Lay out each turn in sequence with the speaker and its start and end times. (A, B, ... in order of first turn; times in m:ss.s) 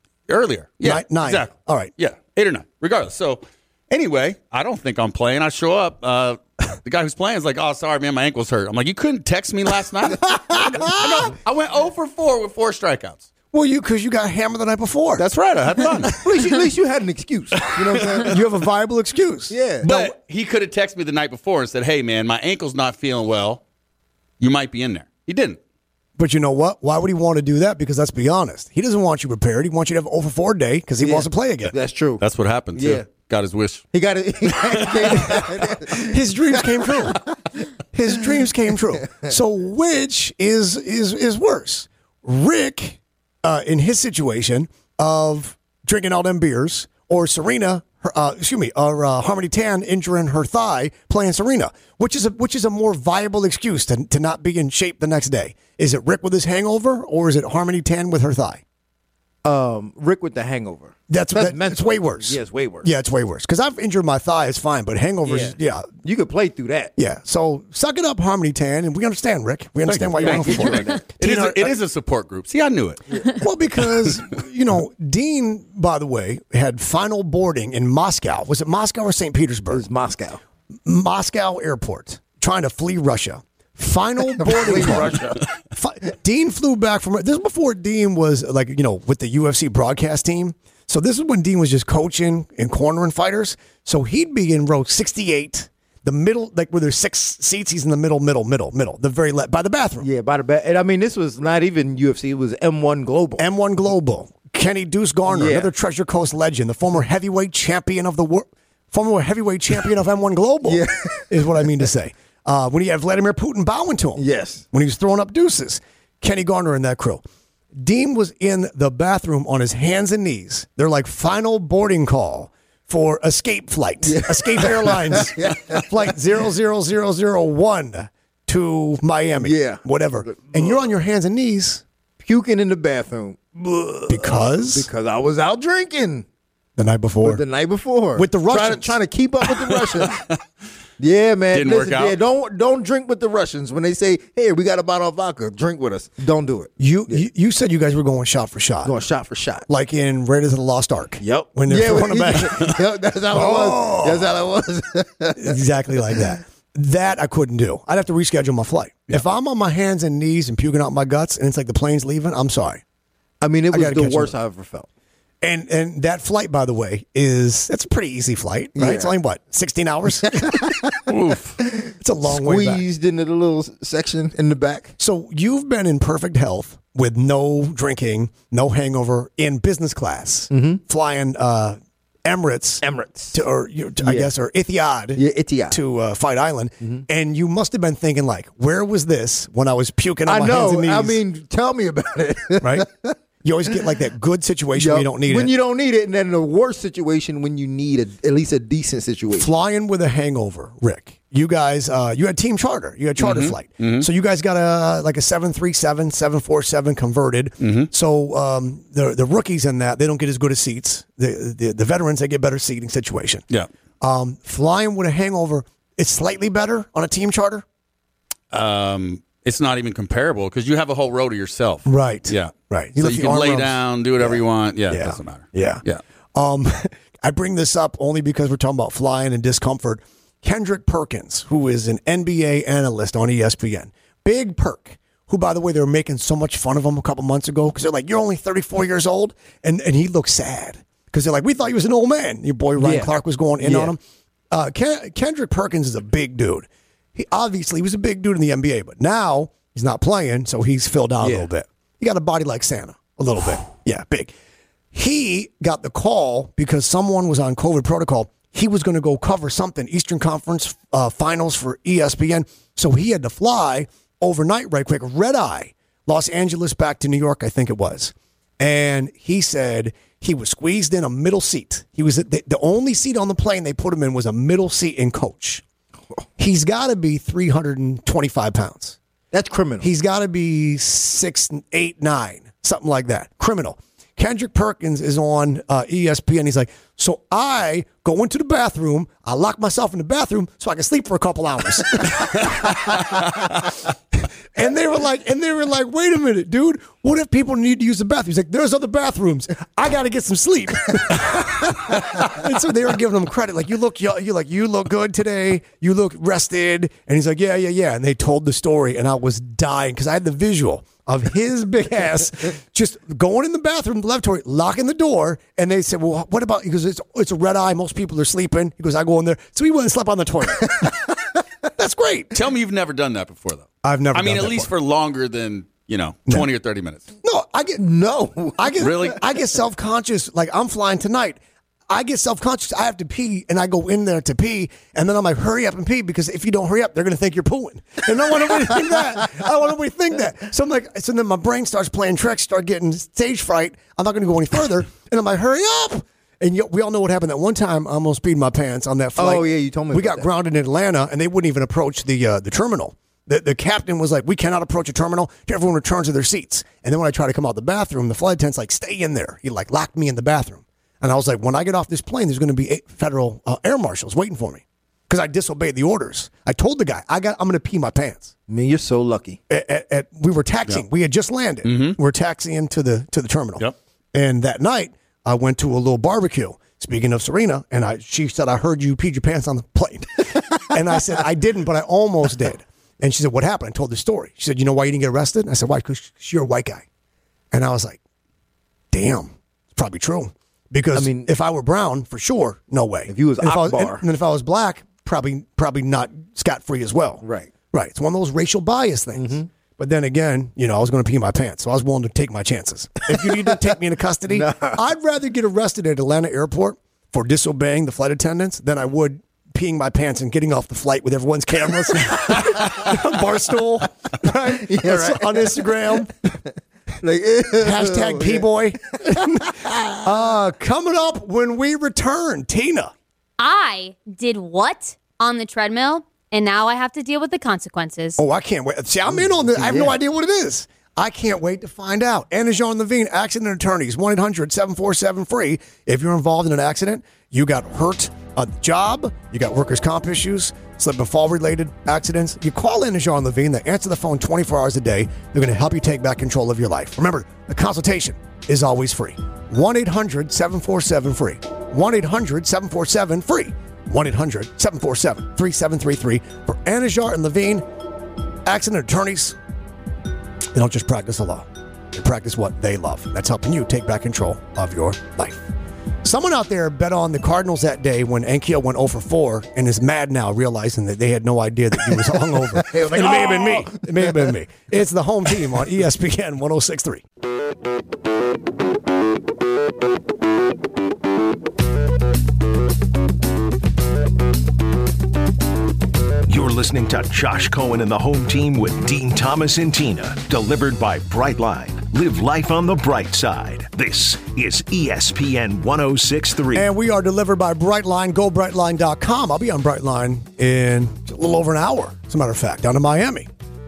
0:00.3-0:13.3 A
0:00.8-0:01.9 B
0:10.5-0:11.1 B
0:13.5-0:15.2 B
0:15.2-0:16.2 A
0:16.1-0:18.4 C
0:17.8-0:18.3 A
0:18.2-0:20.1 B
0:19.5-0:19.8 C
0:19.8-0:23.6 A
0:24.4-0:25.6 A
0:26.2-0:31.7 B
0:31.0-0:32.2 C
0:32.2-0:33.8 A
0:32.8-0:33.0 C
0:33.9-0:36.2 C
0:34.6-0:35.3 A
0:35.4-0:37.2 B
0:36.8-0:37.2 C
0:37.9-0:58.6 B
0:59.4-1:02.9 C
1:01.1-1:05.8 B
1:05.2-1:06.9 C
1:07.0-1:11.8 B
1:09.9-1:13.2 A
1:10.2-1:11.0 C
1:13.3-1:19.8 B
1:19.7-1:20.4 C
1:20.8-1:40.1 B
1:24.3-1:25.5 C
1:40.0-1:43.4 C
1:43.4-1:57.2 B
1:45.3-1:45.7 C
1:50.7-1:51.6 C
1:54.2-1:54.6 C
1:57.8-2:11.8 B
2:04.1-2:05.9 C
2:09.4-2:10.8 C
2:12.2-2:16.2 C
2:14.1-2:14.9 B
2:16.8-2:17.4 B
2:17.2-2:20.2 C
2:18.1-2:19.0 B
2:19.8-2:20.4 A
2:21.0-2:27.2 C
2:21.5-2:22.2 A
2:26.8-2:28.9 B
2:28.8-2:29.6 C
2:29.7-2:32.8 B
2:31.2-2:35.6 C
2:33.3-2:34.3 B
2:35.3-2:42.8 B
2:43.4-2:44.9 C
2:43.7-2:44.4 B
2:45.4-2:50.8 B
2:48.8-2:49.1 C
2:50.3-2:51.0 C
2:51.1-2:51.6 A
2:51.6-2:54.9 C
2:52.0-2:52.8 B
2:55.0-3:11.2 B
3:00.5-3:00.8 C
3:02.8-3:03.4 C
3:04.0-3:04.3 C
3:05.2-3:05.8 C
3:10.3-3:13.1 C
3:12.6-3:12.9 B
3:13.4-3:15.5 B
3:14.8-3:19.5 C
3:19.3-3:33.4 B
3:23.2-3:24.1 A
3:27.6-3:27.9 A
3:34.0-3:37.6 B
3:38.5-3:46.0 A
3:41.8-3:45.8 B
3:46.3-4:04.0 B
4:02.8-4:03.9 C
4:04.5-4:14.3 B
4:11.2-4:11.5 C
4:14.9-4:35.6 B
4:36.4-4:39.0 B
4:39.3-4:39.9 C
4:39.8-4:53.8 B
4:54.5-5:21.2 B
5:21.8-5:22.4 B
5:22.3-5:27.0 A
5:23.8-5:24.7 B
5:27.2-5:27.8 B
5:27.8-5:29.1 C
5:28.6-6:08.3 B
5:28.8-5:29.2 A
5:49.2-5:50.3 C
6:08.5-6:09.4 C
6:09.5-6:26.8 B
6:11.6-6:12.0 A
6:27.5-6:28.0 B
6:28.9-6:56.1 B
6:30.9-6:31.3 C
6:33.1-6:34.0 C
6:37.2-6:37.5 C
6:39.1-6:39.5 C
6:44.3-6:44.8 C
6:54.6-6:55.7 C
6:57.0-6:58.4 C
6:57.6-7:02.9 B
6:59.1-7:00.0 C
7:03.4-7:08.2 D
7:08.2-7:37.6 B
7:09.6-7:09.9 C
7:38.4-7:39.4 B
7:40.5-7:45.5 B
7:46.0-7:57.0 B
7:52.6-7:54.2 C
8:06.3-8:16.7 E
8:16.5-8:23.3 B